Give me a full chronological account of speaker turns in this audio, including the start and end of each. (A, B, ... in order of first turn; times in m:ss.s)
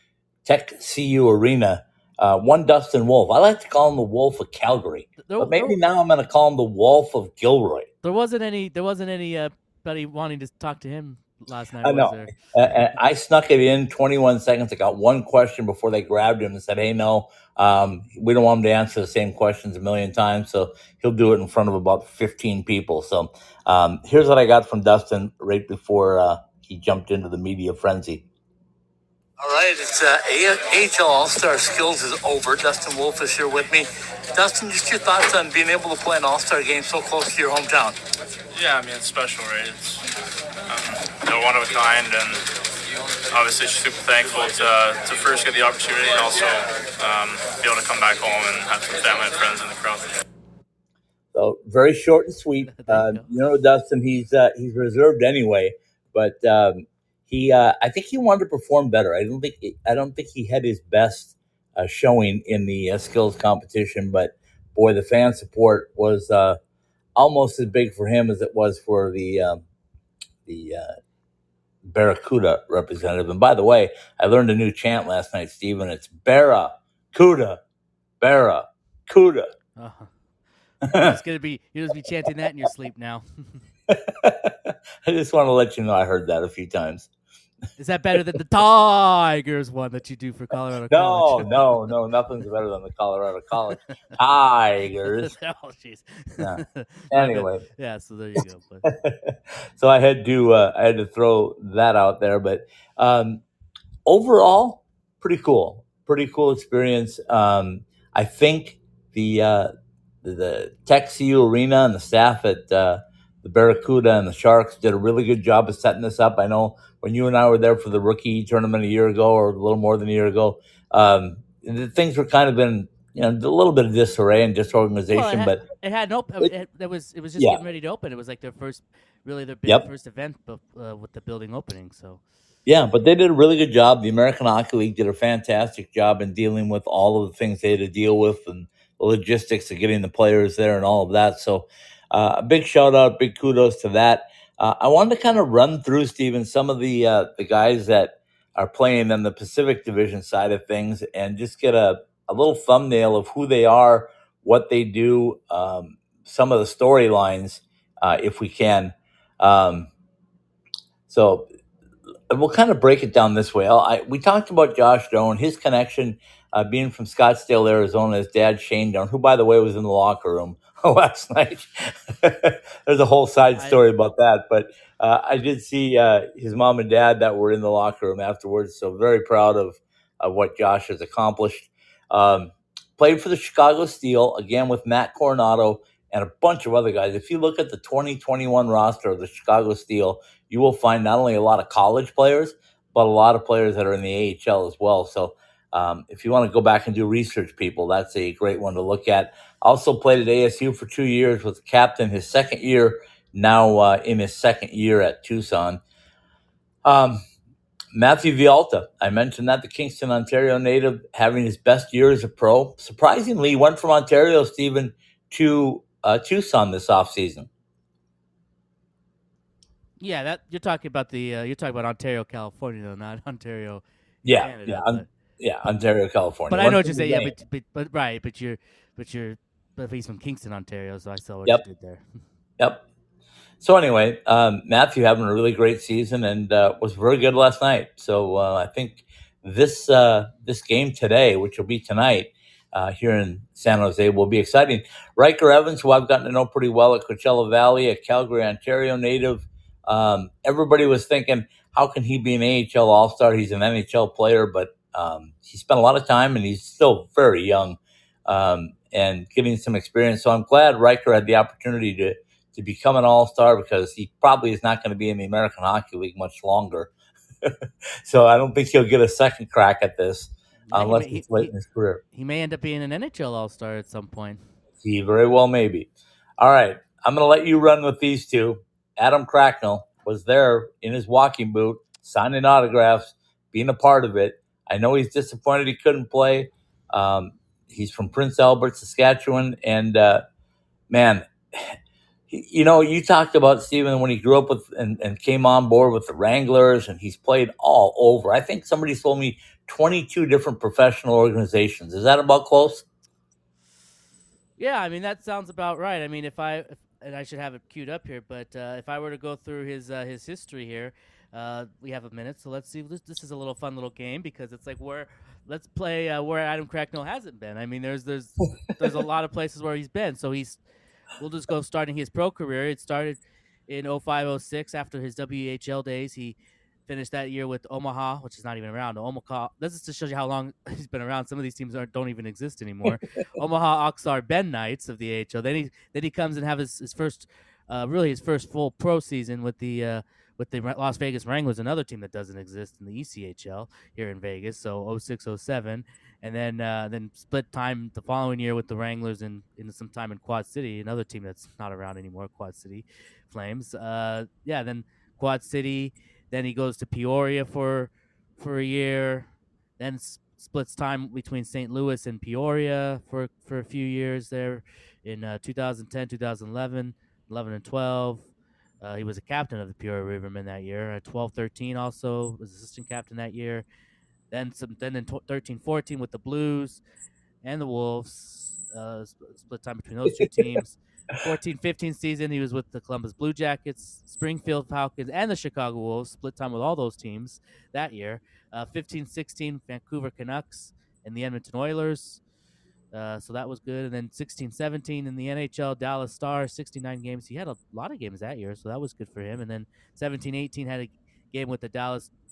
0:00.4-0:07.9 A
0:05.2-0:05.8 B
0:08.0-0:12.3 B
0:11.8-0:28.2 A
0:29.4-0:38.0 C
0:38.5-0:40.0 D
0:40.7-0:42.4 D
0:43.3-0:50.2 D
0:51.3-1:06.6 A
0:52.6-0:53.3 B
1:07.2-1:09.6 A
1:10.4-1:10.9 A
1:11.8-1:17.6 A
1:18.2-1:19.5 A
1:19.8-1:20.1 B
1:20.8-1:21.2 A
1:20.8-1:23.6 B
1:23.9-1:27.1 A
1:27.8-1:31.9 B
1:30.9-1:35.3 A
1:35.0-1:38.9 B
1:36.4-1:37.6 A
1:38.8-1:43.4 A
1:44.0-1:49.7 A
1:50.2-2:05.6 A
2:05.1-2:12.2 B
2:12.6-2:39.9 A
2:41.1-2:41.5 A
2:42.3-3:25.8 A
2:53.5-2:53.8 B
3:26.8-3:27.2 A
3:27.9-3:37.5 A
3:40.0-3:45.1 B
3:44.2-3:47.3 A
3:46.5-3:52.0 B
3:53.6-4:26.9 A
4:28.0-4:32.0 A
4:30.7-4:31.5 B
4:32.1-4:34.4 B
4:34.8-4:50.2 A
4:50.9-4:51.7 A
4:52.3-5:02.8 A
5:04.6-5:20.6 B
5:21.2-5:26.4 B
5:26.9-6:08.3 B
6:08.8-6:13.6 B
6:14.3-6:16.8 B
6:17.4-6:32.2 B
6:32.9-6:42.1 B